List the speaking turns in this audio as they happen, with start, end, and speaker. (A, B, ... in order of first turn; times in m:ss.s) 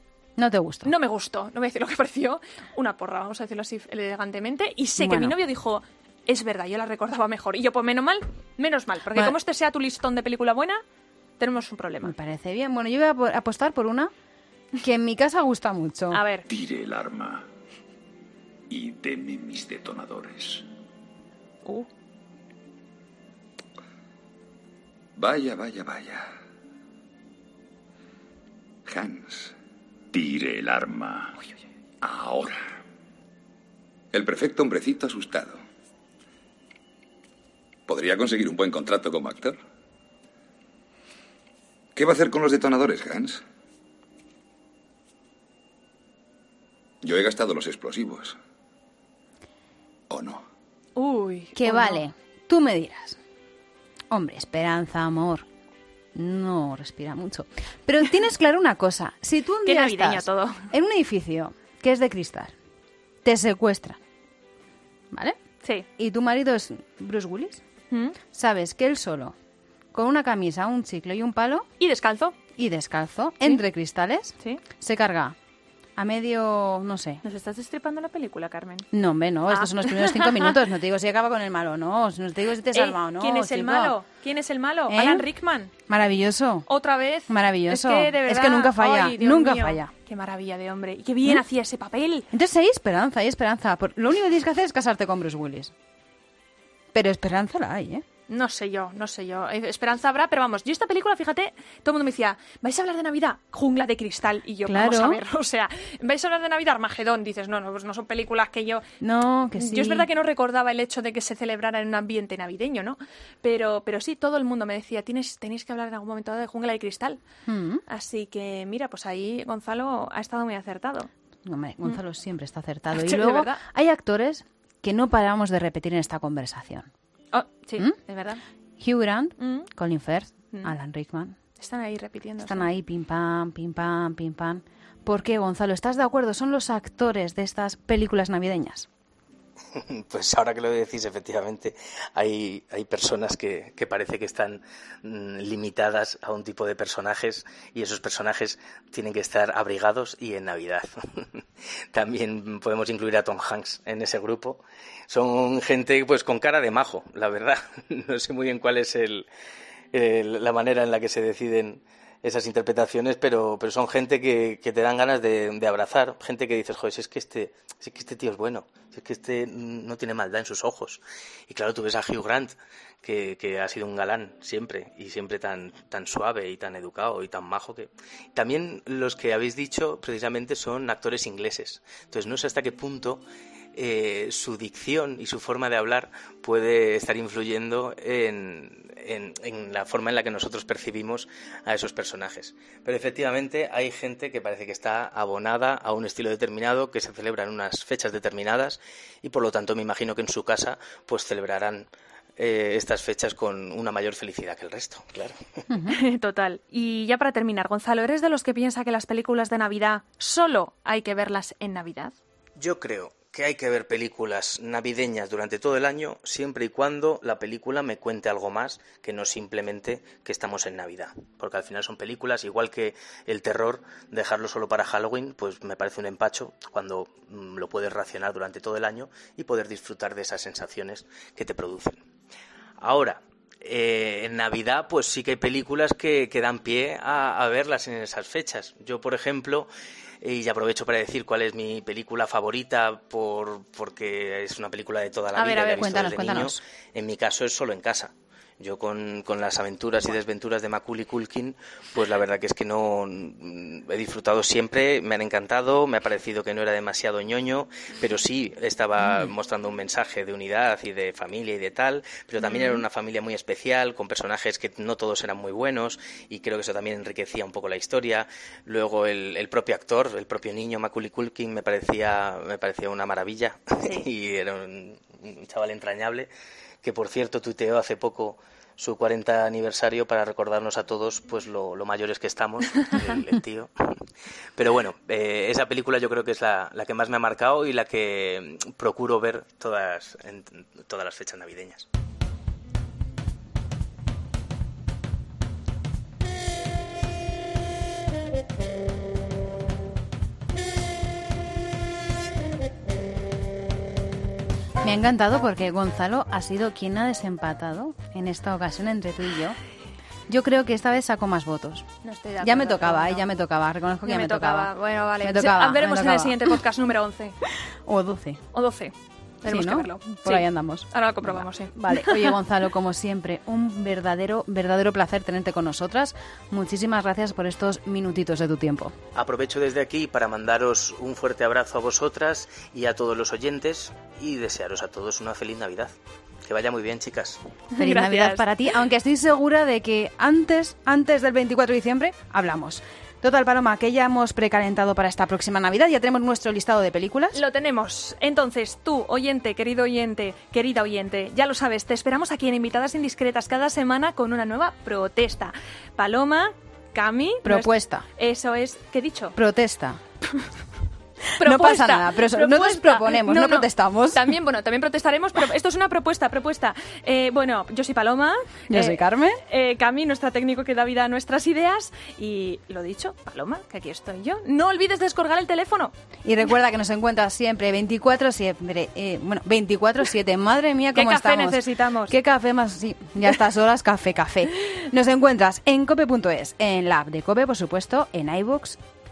0:00.4-0:00.9 A
0:00.8-0:10.8 B
0:05.0-0:05.4 A
0:11.4-0:12.1 B
0:12.0-0:14.1 A
0:14.8-0:16.2 A
0:16.1-0:16.4 B
0:16.5-0:17.4 C
0:18.7-0:20.6 C
0:25.2-0:26.2 D
0:28.9-0:29.5 D
0:30.1-0:31.4 C
0:32.0-0:32.7 C
0:34.1-0:35.6 D
0:37.9-0:39.6 D
0:41.9-0:43.4 D
0:47.0-0:48.4 D
0:50.1-0:50.4 D
0:51.0-0:52.0 B
0:51.6-0:53.2 A
0:54.1-0:55.4 A
0:56.1-1:02.5 A
0:59.6-1:00.7 B
1:03.2-1:04.0 A
1:05.1-1:05.4 A
1:06.0-1:07.6 A
1:07.9-1:08.2 B
1:08.3-1:09.3 A
1:09.9-1:11.7 A
1:11.8-1:12.3 B
1:12.6-1:15.4 A
1:16.0-1:17.2 A
1:17.2-1:18.9 B
1:18.9-1:24.0 A
1:19.5-1:20.6 B
1:22.7-1:25.7 B
1:24.9-1:25.3 A
1:25.9-1:26.6 A
1:26.7-1:32.3 B
1:27.3-1:29.9 A
1:32.3-1:35.7 A
1:36.9-1:38.0 A
1:38.3-1:48.9 B
1:44.6-1:45.2 A
1:49.0-1:50.1 A
1:49.6-1:57.2 B
1:57.4-1:57.8 A
1:57.9-2:01.1 B
2:01.4-2:06.9 A
2:02.9-2:03.6 B
2:07.3-2:08.4 B
2:08.8-2:11.4 A
2:09.4-2:09.7 B
2:11.6-2:12.7 B
2:12.4-2:18.9 A
2:19.8-2:31.4 E
2:31.9-2:39.3 E
2:39.9-3:03.2 E
3:03.7-3:25.3 E
3:25.7-3:26.0 A
3:25.9-3:32.1 B
3:32.6-3:52.0 E
3:52.8-3:59.7 E
4:00.2-4:36.3 E
4:05.4-4:05.9 B
4:05.4-4:06.6 A
4:22.4-4:22.8 B
4:36.8-4:43.9 E
4:44.6-4:51.8 E
5:04.8-5:09.6 A
5:10.3-5:11.9 A
5:12.0-5:13.3 B
5:12.4-5:16.5 A
5:14.0-5:17.4 B
5:17.8-5:18.4 A
5:18.5-5:22.3 B
5:19.4-5:28.9 A
5:29.1-5:35.9 E
5:36.4-5:37.4 E
5:37.7-5:38.4 B
5:37.8-5:47.4 A
5:47.3-5:59.4 B
5:57.4-5:58.0 A
5:59.4-6:00.0 A
6:01.4-6:15.9 B
6:01.4-6:04.4 A
6:08.7-6:09.4 A
6:16.2-6:28.8 A
6:20.9-6:22.1 B